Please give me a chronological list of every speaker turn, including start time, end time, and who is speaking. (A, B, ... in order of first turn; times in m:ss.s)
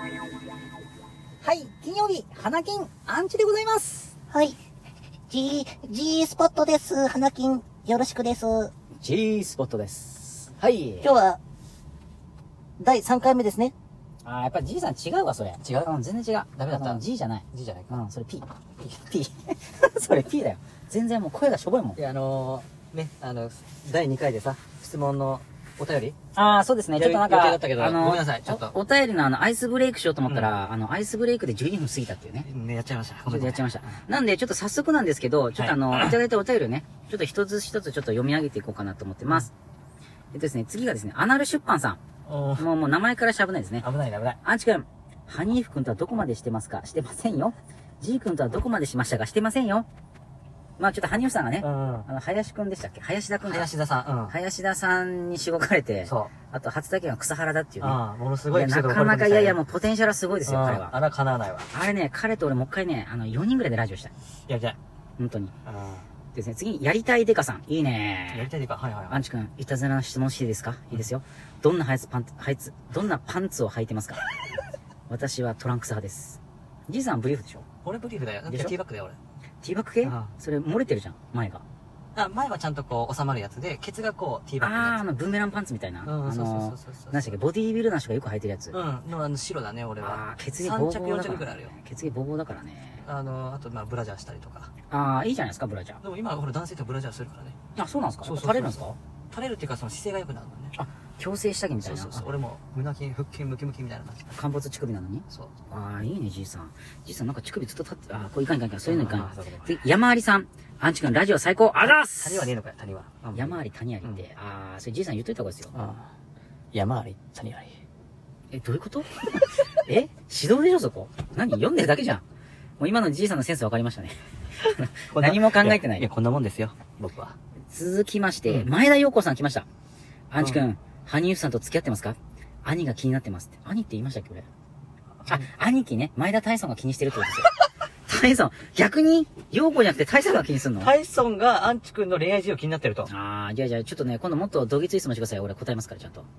0:01.4-0:04.2 A
0:04.3-0:04.6 B
0:05.3-0:08.7 B
0:09.0-0:11.1 A
0:11.0-0:11.4 B
0:12.8-0:13.7 C
0:14.2-0:22.0 A
0:15.6-0:15.9 C
0:16.6-0:18.0 C
0:22.0-0:26.2 C
0:26.4-0:32.5 A
0:27.0-0:28.8 C
0:30.3-0:30.5 C
0:32.4-0:34.0 C
0:33.2-0:39.5 A
0:35.6-0:36.2 C
0:40.3-0:42.0 A
0:42.3-0:42.7 C
0:42.6-0:43.9 A
0:43.8-0:44.4 C
0:44.4-0:49.9 A
0:50.8-0:53.7 A
0:51.6-0:52.1 C
0:53.4-0:54.4 C
0:54.3-0:58.0 A
0:56.1-0:56.3 C
0:57.8-0:59.6 C
0:58.5-1:00.9 A
1:00.5-1:01.7 C
1:01.7-1:04.1 A
1:04.5-1:04.8 C
1:05.2-1:05.5 A
1:05.6-1:06.1 C
1:06.4-1:08.5 A
1:08.3-1:09.2 C
1:09.1-1:14.2 A
1:15.1-1:17.6 A
1:17.8-1:19.2 C
1:18.5-1:18.8 A
1:19.6-1:21.6 A
1:20.0-1:20.3 C
1:22.2-1:25.0 C
1:24.6-1:28.8 A
1:26.0-1:27.4 C
1:28.7-1:31.8 C
1:30.0-1:33.0 A
1:33.0-1:34.7 C
1:34.9-1:36.0 A
1:36.0-1:37.6 C
1:37.8-1:39.0 A
1:38.2-1:40.8 C
1:40.8-1:42.3 A
1:41.8-1:44.4 C
1:44.3-1:52.5 A
1:48.8-1:49.8 C
1:51.8-1:54.2 C
1:53.4-1:56.0 A
1:55.7-1:56.0 C
1:56.7-1:57.8 C
1:58.5-2:02.2 A
2:02.8-2:04.2 A
2:05.1-2:07.4 C
2:05.2-2:06.1 A
2:07.7-2:09.7 A
2:10.3-2:14.5 A
2:15.3-2:17.5 A
2:18.1-2:20.9 A
2:20.8-2:23.1 C
2:23.1-2:26.3 A